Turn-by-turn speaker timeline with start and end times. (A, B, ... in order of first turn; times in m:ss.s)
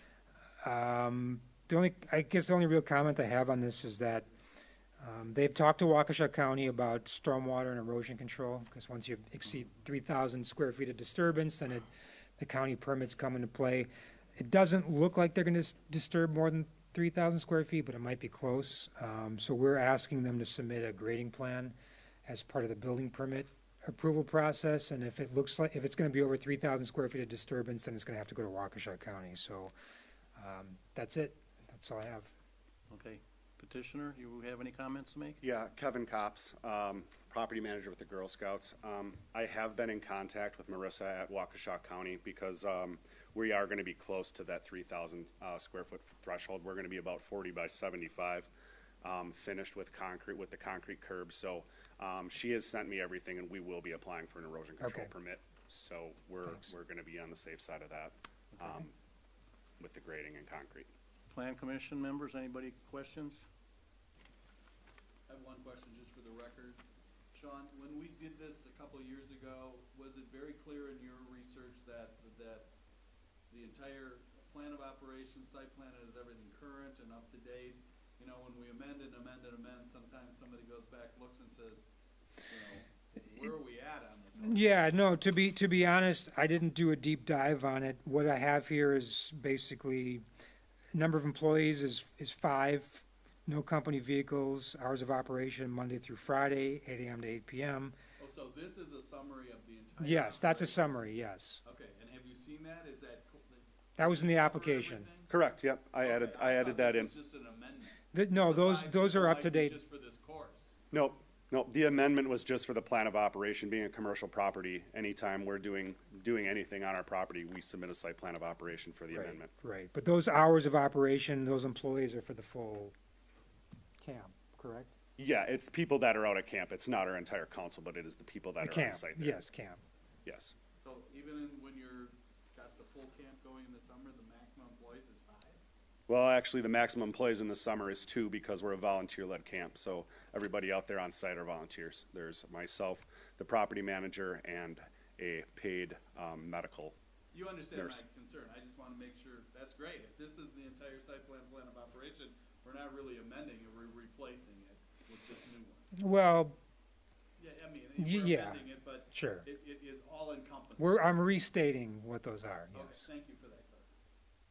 0:00.6-0:04.3 A
0:05.0-0:21.7 A
0:22.3-0:29.7 A
0:30.4-0:32.3 A
0:32.9-0:35.4 B
0:35.4-0:48.5 C
0:49.0-0:58.9 C
0:54.8-0:55.1 A
0:59.8-1:00.9 C
1:01.3-1:03.5 B
1:05.3-1:06.8 D
1:07.3-1:12.7 D
1:13.5-1:21.9 D
1:22.5-1:24.9 D
1:24.4-1:30.2 A
1:30.9-1:38.0 A
1:38.2-1:40.9 D
1:40.0-1:41.6 A
1:41.6-1:45.3 D
1:44.0-1:45.1 A
1:45.3-1:47.1 C
1:46.0-1:50.7 D
1:48.1-1:49.8 A
1:50.9-1:59.5 C
1:59.1-2:02.9 A
2:04.0-2:05.0 A
2:05.2-2:09.4 C
2:08.6-2:09.8 A
2:10.2-2:10.5 C
2:10.8-2:15.6 D
2:16.1-2:27.0 C
2:27.3-2:35.9 D
2:27.7-2:28.0 C
2:36.0-2:36.6 A
2:37.4-2:41.1 D
2:38.0-2:39.5 A
2:40.8-2:43.0 A
2:42.7-2:43.9 D